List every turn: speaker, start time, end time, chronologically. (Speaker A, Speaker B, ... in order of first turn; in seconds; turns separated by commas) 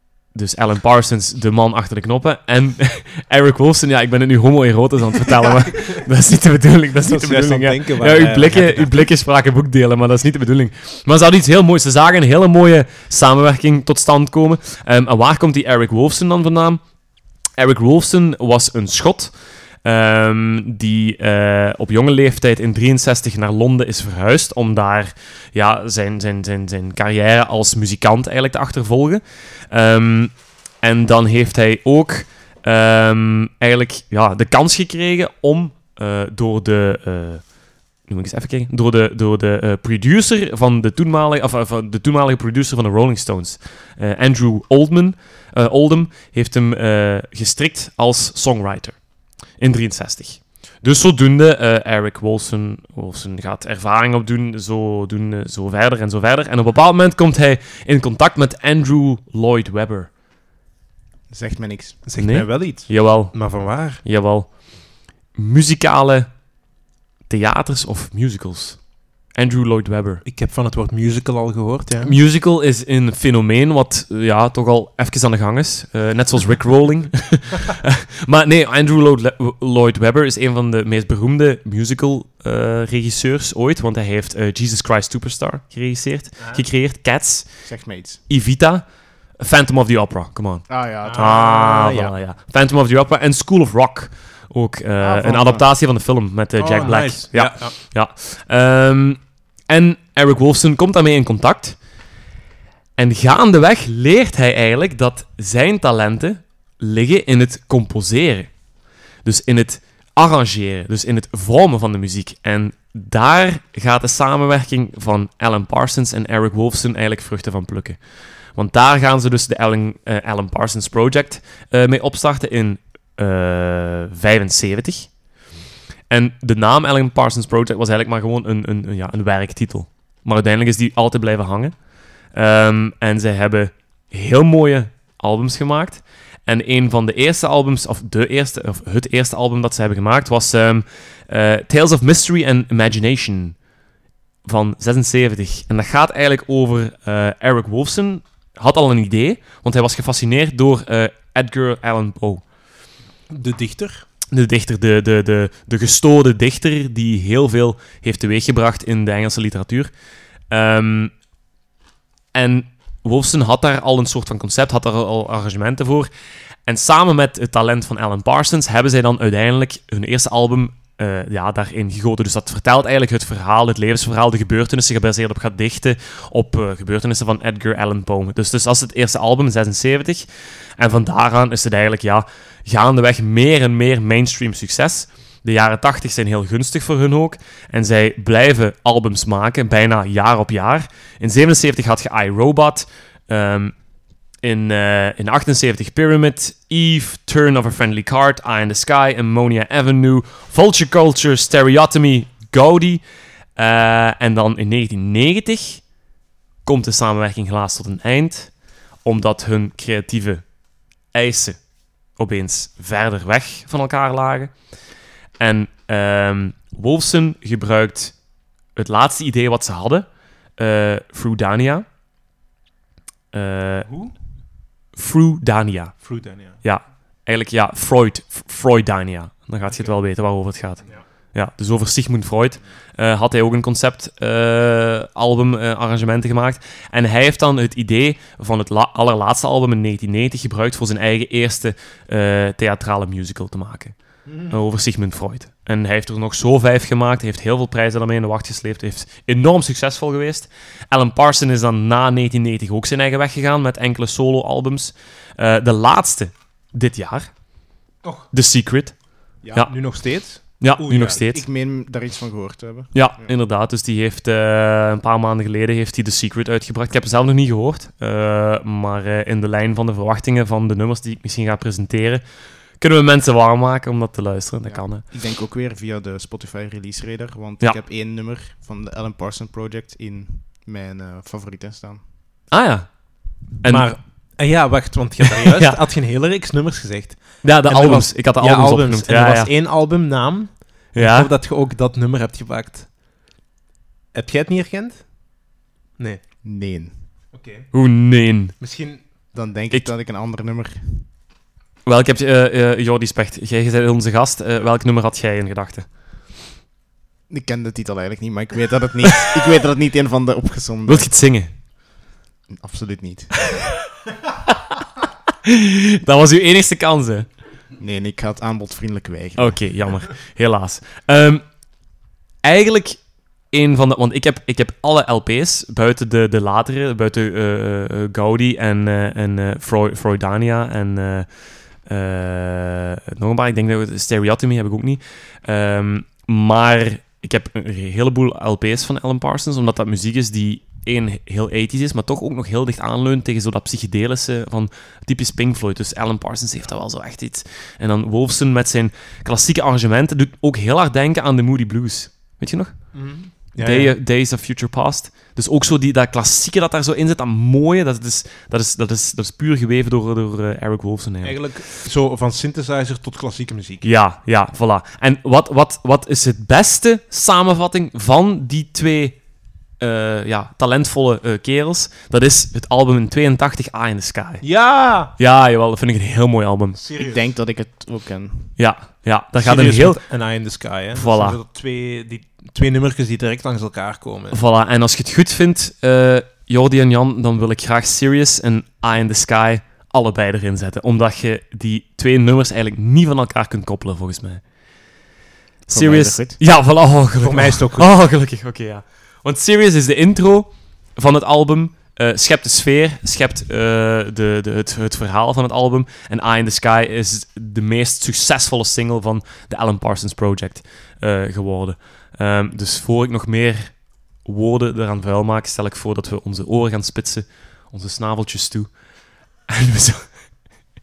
Speaker A: 0.3-16.8, Speaker B: 7.0-9.0, Speaker A: 17.6-19.3, Speaker A: 19.8-60.1, Speaker C: 61.3-62.0, Speaker B: 62.0-64.0, Speaker A: 62.2-66.3, Speaker A: 67.3-70.2, Speaker B: 70.2-72.0, Speaker C: 71.9-72.2, Speaker A: 72.0-87.7, Speaker C: 87.6-88.2, Speaker A: 88.3-101.8, Speaker C: 90.7-92.1, Speaker B: 91.0-91.8, Speaker C: 95.0-95.7, Speaker B: 96.5-97.7, Speaker A: 103.0-108.6, Speaker A: 109.2-118.0, Speaker A: 118.5-125.2, Speaker A: 126.1-143.6, Speaker A: 144.4-152.4, Speaker B: 153.3-154.0, Speaker A: 154.3-159.9, Speaker A: 160.5-161.1, Speaker A: 162.3-166.1, Speaker A: 166.7-180.3, Speaker A: 180.8-193.8, Speaker A: 194.4-203.0, Speaker A: 203.6-205.9, Speaker A: 206.6-210.6, Speaker A: 211.1-214.5, Speaker A: 215.4-218.2, Speaker A: 218.7-221.8, Speaker A: 223.3-223.9, Speaker B: 223.8-224.1, Speaker A: 224.9-257.8, Speaker B: 226.0-226.6, Speaker B: 229.7-229.9, Speaker B: 244.2-244.6, Speaker A: 258.3-261.4, Speaker B: 259.6-261.2, Speaker C: 261.0-263.4, Speaker A: 262.9-272.2, Speaker A: 272.8-275.0, Speaker C: 274.6-282.0, Speaker A: 282.5-283.9, Speaker B: 283.6-292.9, Speaker A: 285.4-285.8, Speaker A: 287.4-289.5, Speaker A: 290.9-291.3, Speaker B: 294.1-296.2, Speaker C: 296.4-297.0, Speaker B: 297.3-297.7, Speaker A: 297.7-298.6, Speaker B: 298.6-299.1, Speaker C: 299.3-301.1, Speaker A: 301.9-306.3, Speaker C: 307.3-311.1, Speaker A: 310.9-311.6, Speaker C: 312.5-313.6, Speaker A: 315.5-317.3, Speaker C: 317.8-319.7, Speaker A: 319.4-331.3, Speaker A: 331.8-361.6, Speaker B: 352.9-354.0, Speaker B: 361.2-363.9, Speaker A: 363.8-369.2, Speaker A: 369.8-374.6, Speaker B: 374.4-375.1, Speaker A: 375.1-376.8, Speaker B: 376.8-377.2, Speaker C: 377.0-378.6, Speaker A: 378.6-380.1, Speaker B: 379.4-384.4, Speaker A: 380.9-381.4, Speaker A: 384.3-395.1, Speaker A: 395.7-418.8, Speaker C: 395.7-396.4, Speaker B: 397.2-397.9, Speaker A: 419.5-420.3